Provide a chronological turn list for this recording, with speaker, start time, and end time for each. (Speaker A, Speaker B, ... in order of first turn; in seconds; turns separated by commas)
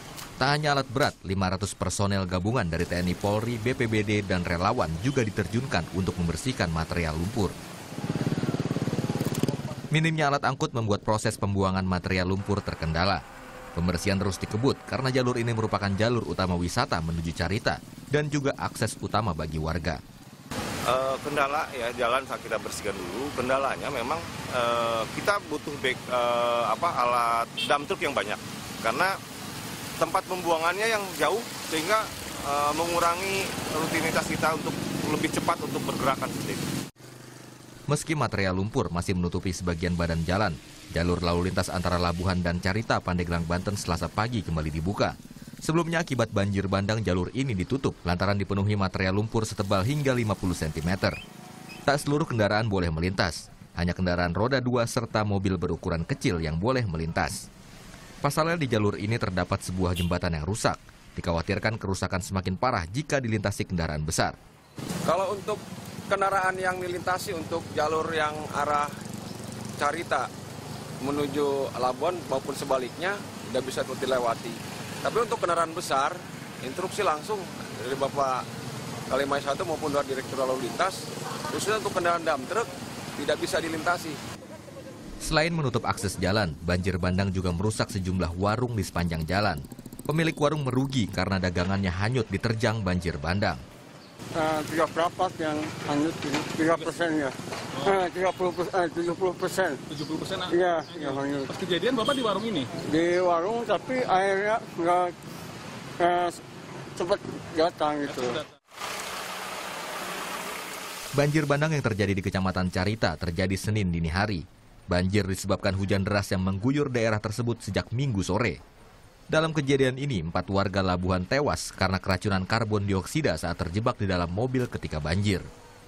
Speaker A: 0.4-7.5, Speaker A: 9.9-13.2, Speaker A: 13.8-20.0, Speaker B: 20.9-29.1, Speaker B: 30.0-36.7, Speaker A: 37.9-51.2, Speaker A: 51.9-57.5, Speaker A: 58.2-64.4, Speaker C: 65.0-68.9, Speaker C: 69.8-70.3, Speaker C: 71.0-78.5, Speaker C: 79.1-84.2, Speaker A: 85.2-93.6, Speaker D: 94.3-99.8, Speaker E: 99.9-100.5, Speaker D: 100.5-101.5, Speaker E: 101.1-102.7, Speaker D: 102.8-105.1, Speaker D: 106.0-106.4, Speaker D: 107.0-108.4, Speaker A: 111.2-118.6, Speaker A: 119.3-125.4